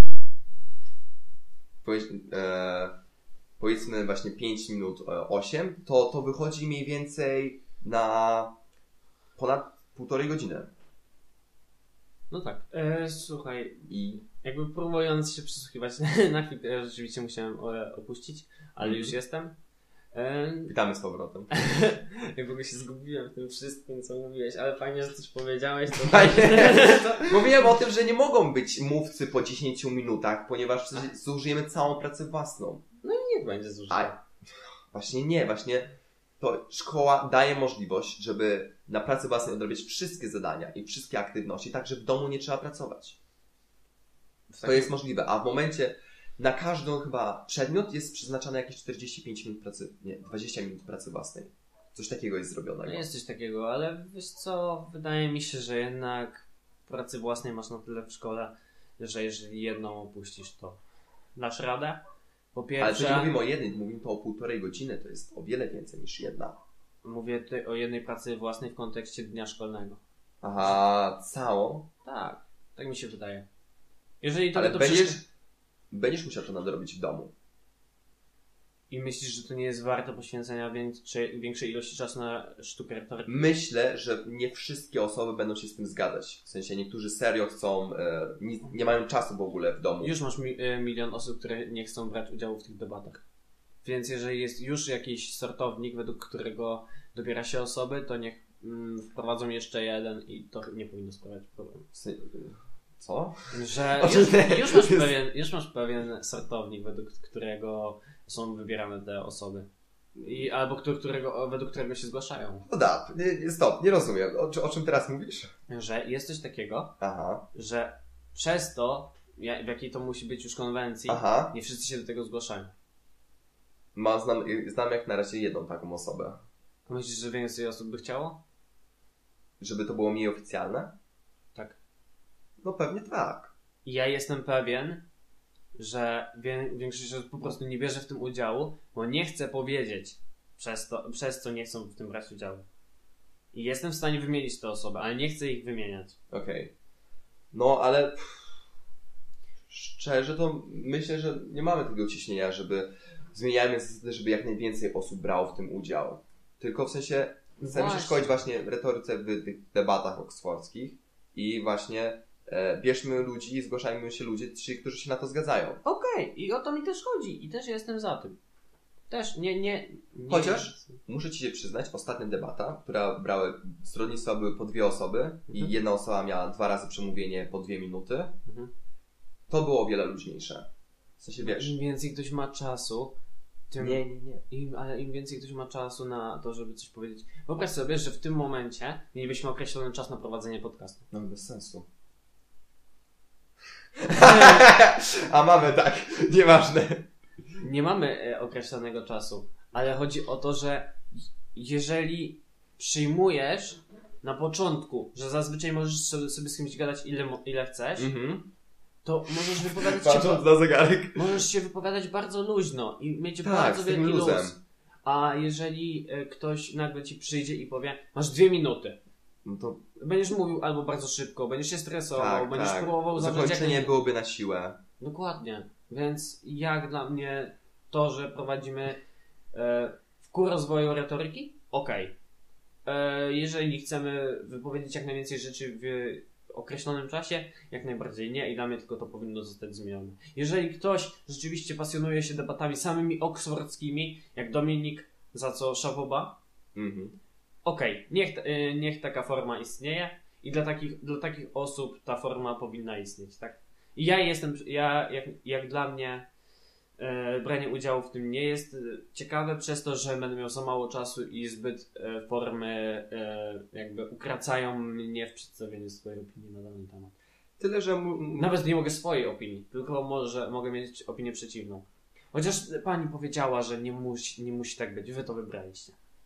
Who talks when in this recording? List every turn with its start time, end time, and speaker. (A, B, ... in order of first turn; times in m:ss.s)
0:01.8-0:03.0 A
0:03.6-0:08.6 A
0:09.4-0:10.7 A
0:12.3-0:13.9 B
0:13.9-0:14.2 A
0:14.4-0:19.6 B
0:18.8-0:19.1 A
0:20.1-0:20.7 B
0:20.7-0:21.5 A
0:21.5-0:27.7 B
0:25.9-0:32.8 A
0:33.0-0:34.2 B
0:34.9-0:43.2 A
0:44.5-0:44.9 B
0:44.6-0:53.0 A
0:52.8-1:00.8 B
1:01.4-1:02.0 B
1:02.6-1:03.3 B
1:02.8-1:06.6 A
1:07.0-1:10.0 B
1:10.4-1:11.9 A
1:12.0-1:13.5 B
1:14.2-1:15.2 B
1:14.5-1:15.3 A
1:15.9-1:17.3 A
1:18.9-1:23.5 B
1:23.3-1:30.2 A
1:30.0-1:33.2 B
1:33.8-1:41.9 B
1:41.9-1:45.1 A
1:43.5-1:49.7 B
1:50.2-1:50.4 A
1:50.2-1:52.7 B
1:52.7-1:55.5 A
1:55.7-1:57.0 B
1:57.0-1:57.5 A
1:57.5-2:02.7 B
2:01.1-2:01.6 A
2:04.0-2:06.4 A
2:06.9-2:08.4 B
2:09.6-2:11.0 A
2:12.6-2:13.5 A
2:13.8-2:15.0 B
2:15.8-2:22.6 B
2:23.5-2:26.2 B
2:26.3-2:26.7 A
2:27.5-2:28.6 A
2:29.7-2:45.8 A
2:37.6-2:38.4 B
2:45.8-2:48.4 B
2:49.1-2:51.0 B
2:50.3-2:58.4 A
2:55.5-2:55.8 B
2:59.5-3:00.7 A
3:01.2-3:01.8 A
3:01.4-3:03.2 B
3:03.7-3:11.1 B
3:03.8-3:04.4 A
3:11.1-3:11.9 A
3:14.0-3:17.1 A
3:14.1-3:14.6 B
3:17.6-3:21.0 B
3:21.5-3:28.1 B
3:28.0-3:28.5 A
3:29.0-3:30.5 B
3:29.5-3:31.4 A
3:31.1-3:39.0 B
3:33.4-3:34.6 A
3:39.4-3:39.8 A
3:40.0-3:43.9 B
3:42.2-3:44.8 A
3:45.0-3:49.0 B
3:49.5-3:52.1 B
3:52.9-4:06.4 B
4:06.8-4:07.2 A
4:07.6-4:16.3 B
4:17.0-4:27.1 B
4:27.6-4:28.6 A
4:28.4-4:36.0 B